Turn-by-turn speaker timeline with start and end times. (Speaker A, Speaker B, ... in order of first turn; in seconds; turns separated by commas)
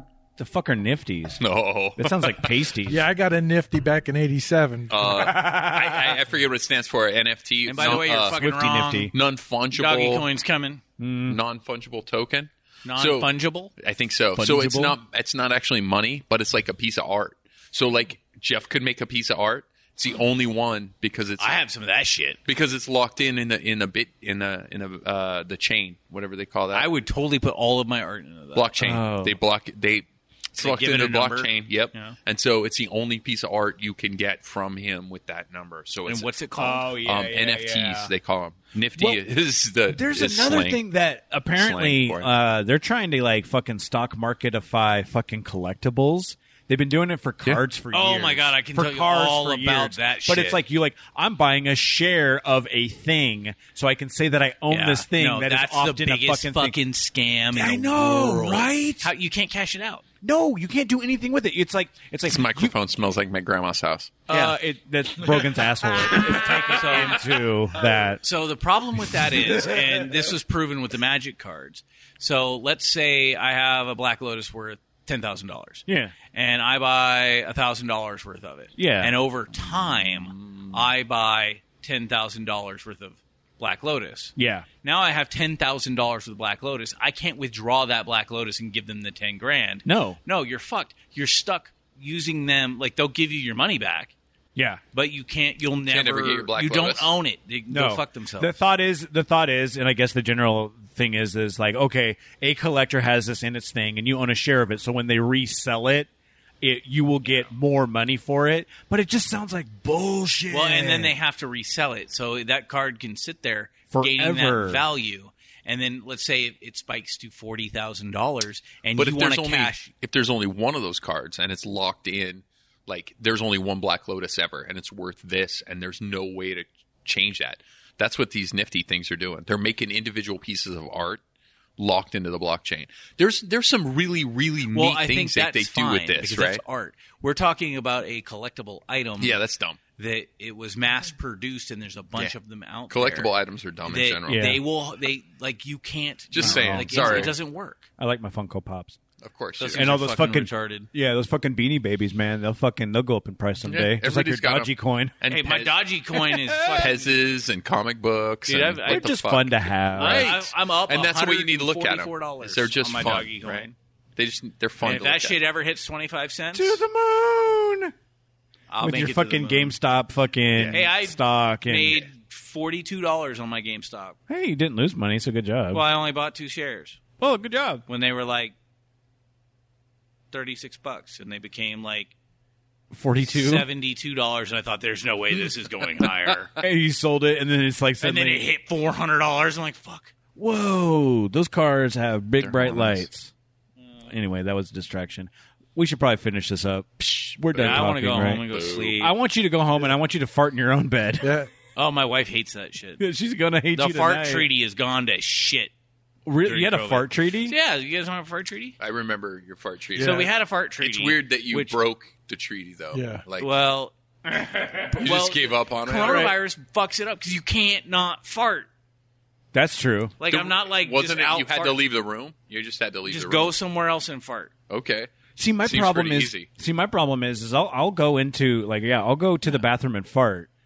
Speaker A: 0.4-1.4, Speaker B: 1.4-2.6, Speaker A: 2.0-3.0, Speaker C: 2.9-5.3, Speaker B: 4.9-8.4, Speaker A: 5.1-6.2, Speaker D: 7.7-9.1, Speaker A: 7.8-9.1, Speaker B: 9.1-10.3, Speaker D: 9.7-10.8, Speaker A: 11.0-11.4, Speaker B: 11.3-21.6, Speaker D: 12.8-13.7, Speaker A: 14.3-15.0, Speaker D: 21.4-22.4, Speaker B: 22.4-26.9, Speaker D: 26.7-29.0, Speaker B: 28.6-36.3, Speaker A: 28.8-29.4, Speaker D: 30.6-32.2, Speaker D: 36.1-37.0, Speaker A: 36.6-38.1, Speaker B: 37.0-40.8, Speaker A: 39.0-39.2, Speaker A: 39.9-56.8, Speaker B: 41.5-42.3, Speaker D: 47.9-50.6, Speaker D: 54.7-60.0, Speaker A: 57.5-59.1, Speaker A: 60.2-62.7, Speaker B: 62.3-64.3, Speaker D: 64.3-64.5, Speaker A: 64.3-68.2, Speaker D: 66.5-67.2, Speaker D: 68.2-94.1, Speaker A: 75.9-76.1, Speaker A: 78.8-79.1, Speaker B: 79.6-80.8, Speaker A: 84.4-84.7, Speaker A: 89.8-90.2, Speaker A: 94.5-94.8, Speaker D: 94.9-98.5, Speaker B: 95.9-97.1, Speaker A: 97.7-106.1, Speaker A: 106.6-111.2, Speaker D: 110.5-119.9, Speaker A: 113.9-114.8, Speaker B: 119.0-131.2, Speaker B: 131.8-136.6, Speaker D: 134.7-139.4, Speaker B: 139.2-139.8, Speaker D: 140.0-143.3, Speaker B: 142.9-144.6, Speaker D: 143.9-147.9, Speaker A: 144.3-144.6, Speaker B: 146.3-147.4, Speaker A: 146.4-147.3, Speaker A: 148.0-149.0, Speaker B: 149.2-149.9, Speaker D: 149.6-150.9, Speaker A: 149.7-155.2, Speaker B: 153.6-155.8, Speaker D: 155.3-157.1, Speaker A: 156.3-156.8, Speaker B: 156.7-165.4, Speaker D: 158.5-159.2, Speaker A: 158.9-160.3, Speaker D: 160.0-163.7, Speaker D: 164.8-166.8, Speaker A: 166.5-167.9, Speaker D: 168.7-169.8, Speaker A: 168.8-172.1, Speaker B: 170.5-170.8, Speaker D: 170.7-174.2, Speaker A: 174.3-175.8, Speaker D: 175.7-177.0, Speaker A: 177.2-177.8, Speaker D: 177.9-178.6, Speaker D: 180.3-182.1, Speaker A: 182.9-183.7, Speaker D: 183.2-186.5, Speaker A: 186.6-188.5, Speaker D: 188.0-190.1, Speaker A: 190.3-193.3, Speaker B: 192.4-193.1, Speaker A: 194.1-201.4, Speaker D: 197.5-199.2, Speaker B: 197.6-199.0, Speaker C: 201.2-201.5, Speaker D: 201.8-203.0, Speaker A: 203.0-204.5, Speaker D: 203.7-205.7, Speaker A: 206.3-207.5, Speaker D: 206.4-208.8, Speaker B: 208.8-213.6, Speaker C: 209.9-210.3, Speaker D: 210.0-211.8, Speaker C: 212.9-213.2, Speaker D: 213.4-213.9, Speaker A: 214.5-214.9, Speaker D: 214.7-218.7, Speaker B: 215.0-216.3, Speaker A: 216.0-216.3, Speaker A: 219.5-220.2, Speaker D: 220.2-221.8, Speaker B: 220.3-223.6, Speaker D: 223.1-224.5, Speaker B: 224.7-226.5, Speaker A: 225.4-230.5